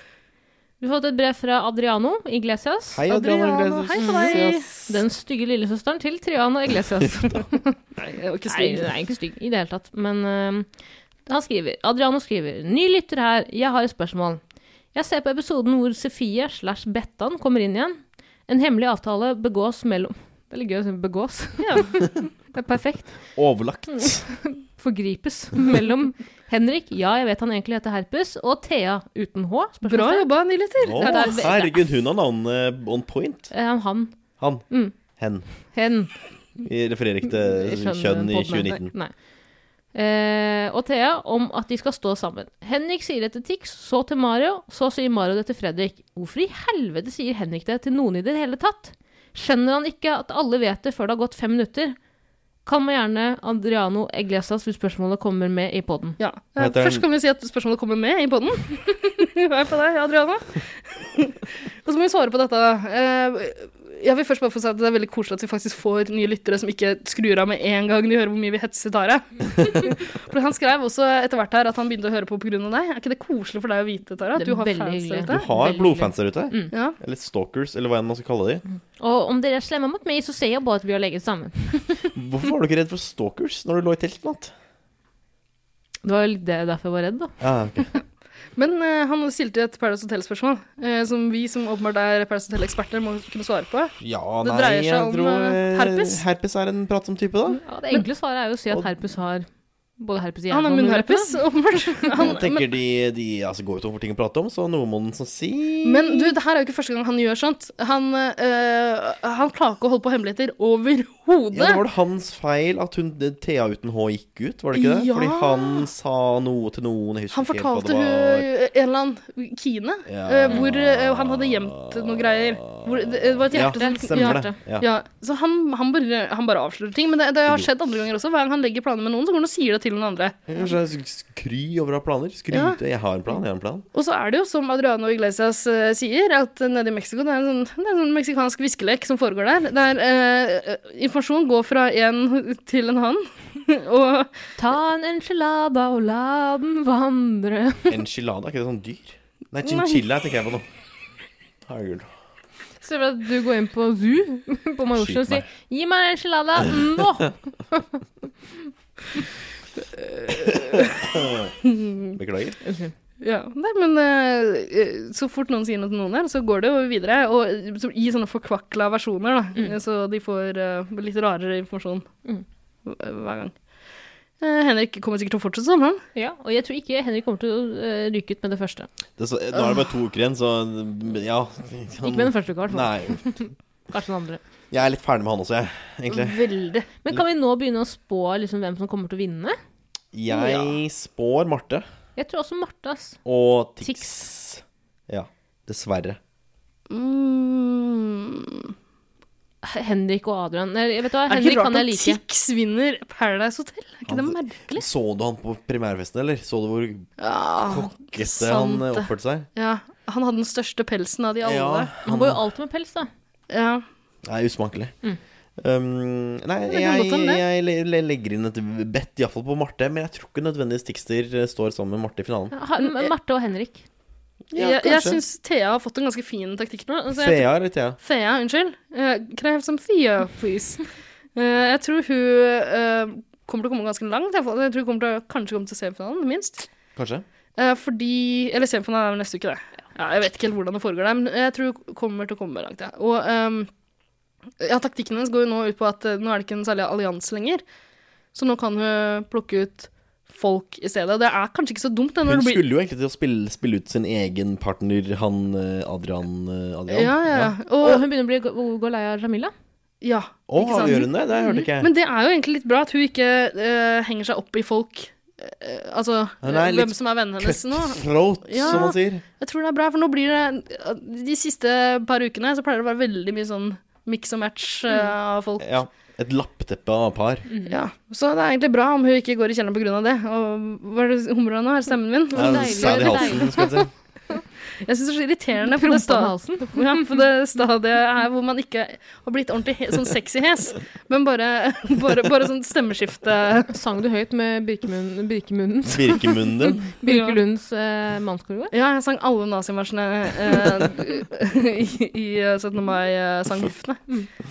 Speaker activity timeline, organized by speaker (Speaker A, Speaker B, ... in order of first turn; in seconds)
Speaker A: 0.8-3.0, 4.0-7.8, 8.5-10.7, 11.3-14.4, 14.9-23.2, 24.0-30.3, 31.0-31.9, 33.5-34.1, 34.7-34.9, 35.6-36.1, 37.3-39.1, 39.9-52.0, 52.7-56.2, 74.4-76.7, 79.0-82.1, 86.0-87.4, 97.5-99.5, 100.0-101.4, 123.5-124.6, 144.6-148.0, 152.8-158.0, 162.6-162.9, 176.2-178.9, 182.0-184.4, 187.0-189.6, 192.2-193.2, 193.8-194.2, 199.6-202.2, 212.0-213.1, 222.5-223.8, 226.9-227.2, 257.8-259.5, 260.8-261.6, 277.5-277.8, 282.3-283.7, 285.7-287.2, 293.7-298.7
Speaker B: 2.9-5.0, 23.4-24.2, 30.8-33.5, 34.4-35.5, 36.6-38.9, 56.6-57.0, 75.3-78.6, 82.1-84.5, 87.4-87.9, 94.0-97.6, 102.1-106.3, 111.5-118.5, 120.1-124.9, 130.5-133.8, 147.9-150.7, 151.7-152.1, 155.0-155.5, 160.5-161.5, 162.2-162.6, 179.2-183.2, 184.7-186.4, 190.1-191.8, 193.2-196.2, 204.1-209.5, 211.4-212.4, 214.2-214.9, 215.6-222.6, 224.5-225.2, 227.2-228.0, 237.0-237.2, 252.2-257.5, 260.5-261.9, 266.4-269.2, 275.6-277.5, 282.3-283.9, 295.9-296.9
Speaker C: 3.1-4.7, 8.0-8.9, 21.6-21.9, 29.8-31.5, 56.2-75.5, 88.6-96.2, 100.5-102.7, 105.8-111.8, 114.7-115.9, 117.3-130.5, 132.5-132.8, 133.9-144.3, 149.6-150.0, 160.0-162.2, 163.2-172.1, 172.8-173.6, 174.4-176.0, 186.1-186.9, 190.3-190.8, 196.9-198.7, 201.3-204.9, 207.2-211.9, 213.5-213.8, 216.7-217.4, 224.6-227.5, 228.0-236.7, 237.6-243.7, 244.6-247.6, 248.3-252.7, 256.9-258.0, 260.0-275.7, 277.7-283.8, 284.8-293.7, 297.1-297.4, 298.7-304.0